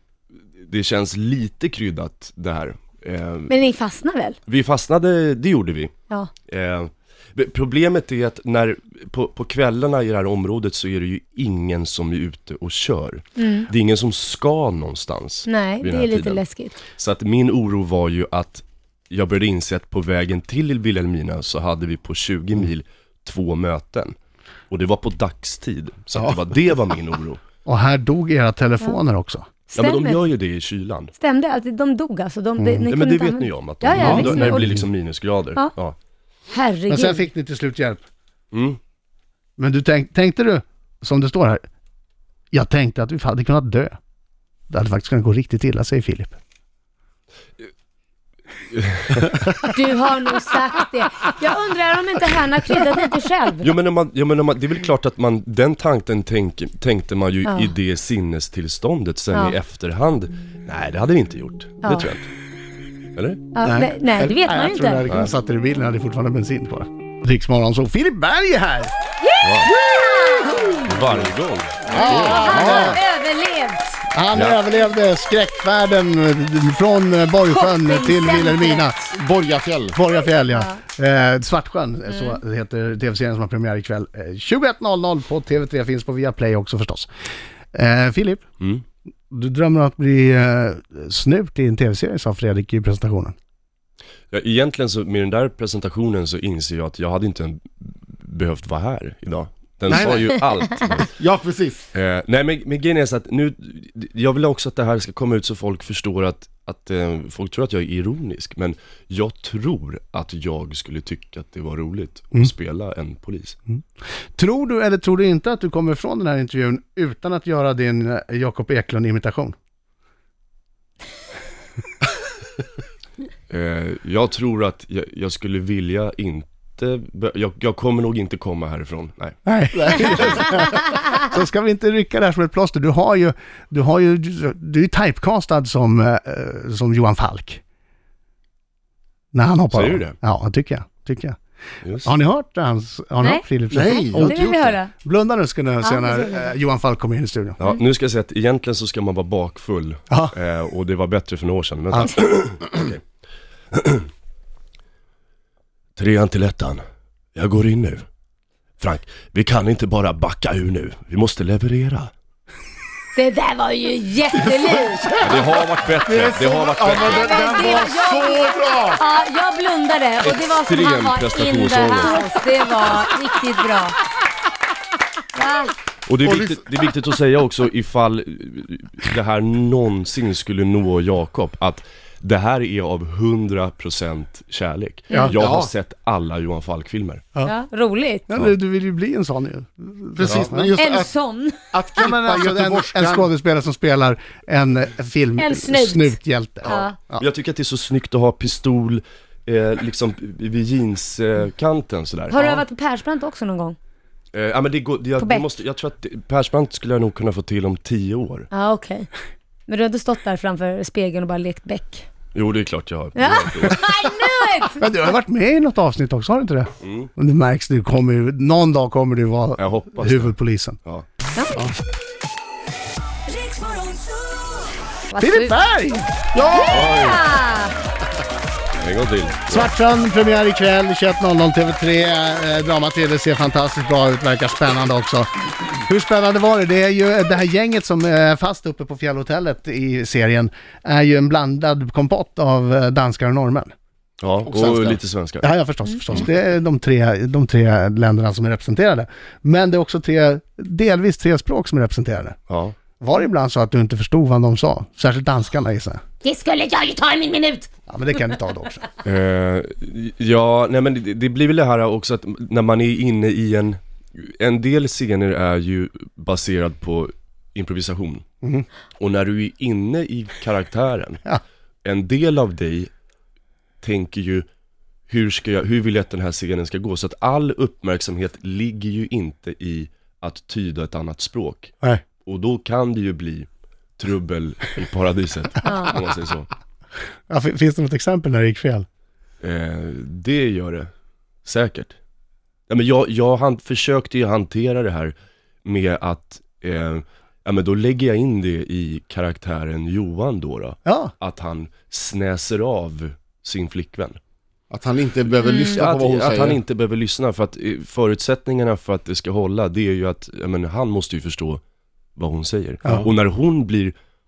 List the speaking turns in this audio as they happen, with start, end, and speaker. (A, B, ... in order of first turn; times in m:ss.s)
0:00.6-0:03.5 A
0:03.5-0:04.4 B
0:04.5-0:05.9 A
0:06.5-0:16.4 A
0:13.4-0:13.7 B
0:15.5-0:16.8 B
0:17.0-0:24.2 A
0:24.7-0:27.4 A
0:27.6-0:29.5 C
0:29.7-0:30.2 B
0:29.8-0:31.1 A
0:31.2-0:34.8 B
0:32.6-0:32.9 C
0:32.9-0:35.9 A
0:34.0-0:34.3 D
0:36.5-0:37.3 B
0:36.9-0:38.0 C
0:38.5-0:38.8 A
0:39.6-0:41.6 C
0:42.5-0:43.9 C
0:44.7-0:46.4 C
0:48.7-0:49.5 A
0:49.7-0:53.7 B
0:53.6-1:02.3 A
0:57.4-0:57.7 B
1:01.8-1:02.1 B
1:03.1-1:03.5 A
1:03.5-1:05.0 B
1:03.6-1:08.9 C
1:09.2-1:10.9 B
1:09.4-1:09.7 A
1:10.8-1:12.6 A
1:11.9-1:14.0 B
1:11.9-1:13.0 D
1:12.0-1:13.0 C
1:14.1-1:19.0 C
1:14.3-1:14.6 A
1:17.5-1:18.9 B
1:19.1-1:20.0 D
1:19.9-1:27.1 C
1:20.5-1:20.8 B
1:22.1-1:22.4 B
1:27.7-1:28.4 C
1:29.3-1:33.3 C
1:34.3-1:41.1 A
1:39.9-1:40.3 D
1:41.1-1:41.8 D
1:41.9-1:53.6 A
1:54.4-1:59.6 C
2:03.5-2:09.4 A
2:09.4-2:17.6 C
2:10.0-2:10.3 A
2:19.3-2:21.4 C
2:19.7-2:20.2 A
2:21.8-2:22.1 A
2:22.0-2:27.6 C
2:23.7-2:24.4 D
2:24.1-2:24.9 B
2:25.8-2:26.5 B
2:27.6-2:33.0 A
2:33.7-2:34.1 A
2:36.0-2:36.8 A
2:37.4-2:38.0 A
2:38.8-2:42.1 A
2:43.2-2:45.2 B
2:44.9-2:45.4 D
2:45.2-2:47.9 A
2:46.0-2:49.0 D
2:46.9-2:54.0 B
2:50.2-2:52.3 A
2:55.3-2:55.7 B
2:56.1-3:07.3 A
3:05.3-3:05.7 D
3:07.4-3:08.3 B
3:08.3-3:10.7 C
3:10.2-3:11.1 D
3:10.7-3:11.7 B
3:11.7-3:13.3 D
3:12.0-3:17.2 C
3:15.4-3:17.0 B
3:16.7-3:22.6 A
3:22.3-3:23.8 B
3:24.3-3:28.5 A
3:25.2-3:25.4 B
3:28.5-3:29.1 B
3:29.7-3:32.1 B
3:32.3-3:33.9 A
3:33.2-3:35.1 B
3:34.8-3:40.8 C
3:36.8-3:37.1 A
3:39.6-3:41.1 A
3:41.3-3:41.7 B
3:43.3-3:45.6 B
3:45.2-3:46.1 C
3:46.3-3:46.8 D
3:46.4-3:47.7 B
3:46.7-3:47.3 A
3:48.8-3:49.7 A
3:49.5-4:03.7 C
4:04.2-4:05.4 A
4:05.4-4:12.4 C
4:05.9-4:06.2 B
4:12.5-4:12.8 A
4:13.0-4:16.0 C
4:16.2-4:17.7 B
4:17.9-4:18.8 C
4:19.0-4:28.2 A
4:29.0-4:31.2 A
4:31.8-4:32.9 A
4:33.8-4:34.4 A
4:35.1-4:41.7 A
4:42.2-4:43.5 A
4:44.0-4:46.5 A
4:45.6-4:45.9 B
4:47.3-4:48.8 C
4:49.4-4:50.9 A
4:51.4-4:51.9 A
4:52.7-4:55.1 A
4:55.6-5:04.2 A
5:00.8-5:01.1 C
5:04.7-5:06.6 D
5:05.4-5:05.8 B
5:05.6-5:11.6 A
5:12.2-5:13.9 A